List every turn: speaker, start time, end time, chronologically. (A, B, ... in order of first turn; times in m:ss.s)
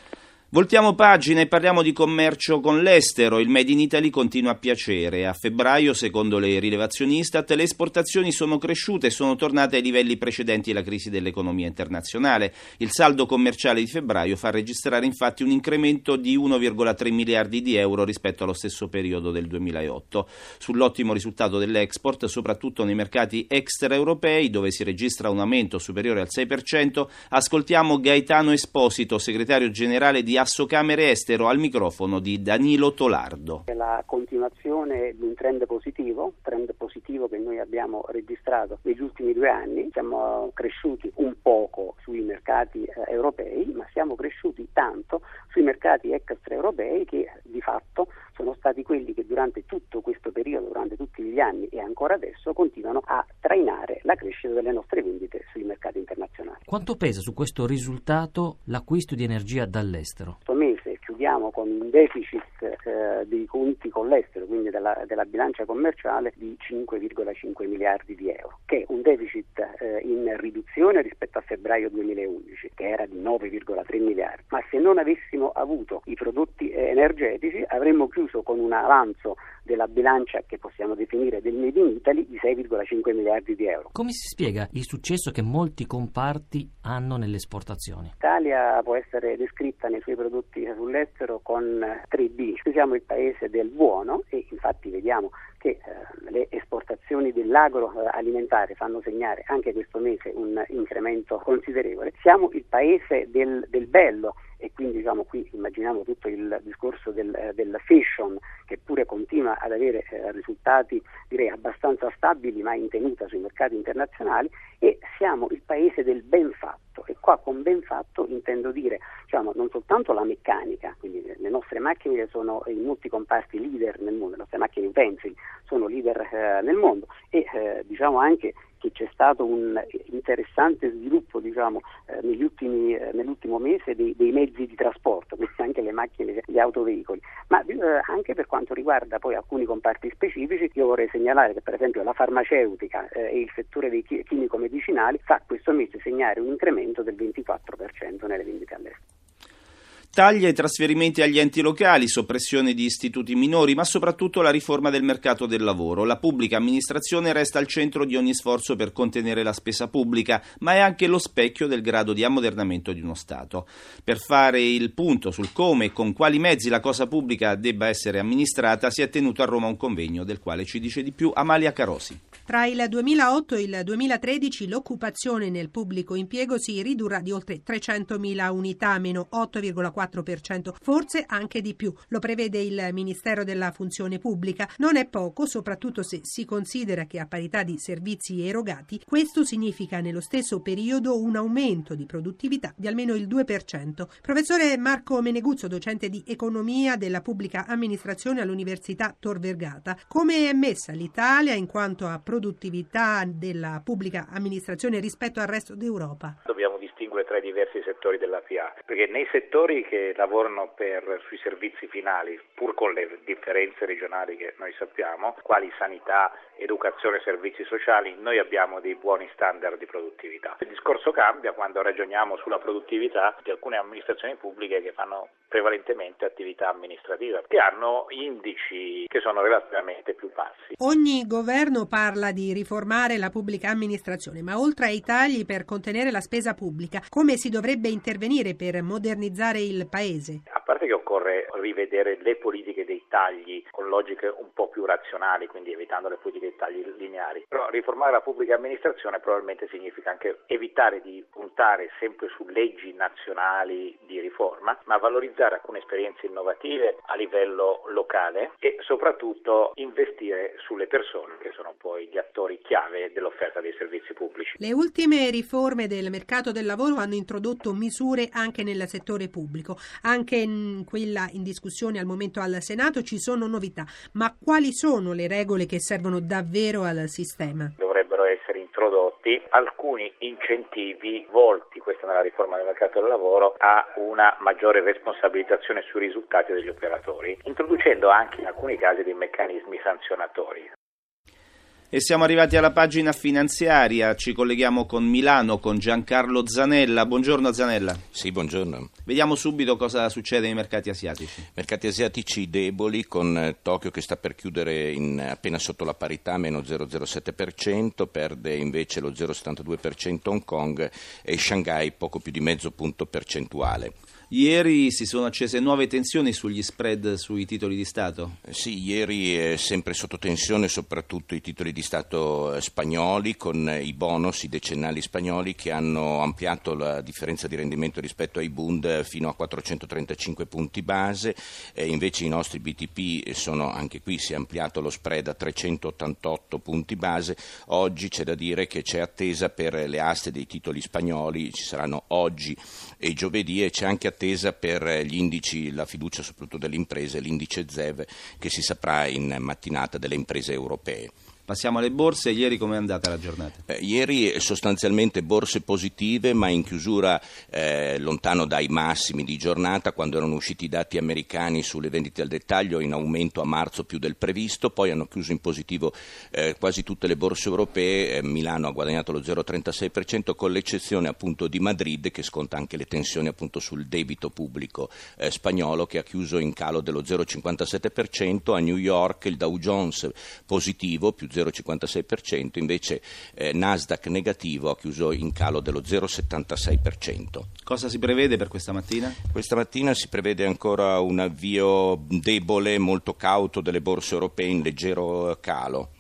0:00.5-0:33.6 A
0:33.7-0:56.8 B
0:56.7-1:00.4 C
1:00.4-1:24.0 B
1:24.0-1:28.1 C
1:28.2-2:29.0 B
2:30.2-2:52.2 A
2:52.5-3:26.4 D
3:26.5-3:50.7 E
3:50.8-4:00.4 D
4:00.5-4:24.6 E
4:24.6-4:37.7 D
4:37.8-4:50.7 E
4:51.9-4:58.0 A
4:58.1-4:58.9 F
4:59.1-5:01.4 A
5:01.6-5:13.9 F
5:14.3-5:18.4 A
5:18.5-5:51.1 F
5:51.5-5:53.6 A
5:53.7-6:27.5 F
6:27.7-6:29.2 A
6:29.3-6:35.9 F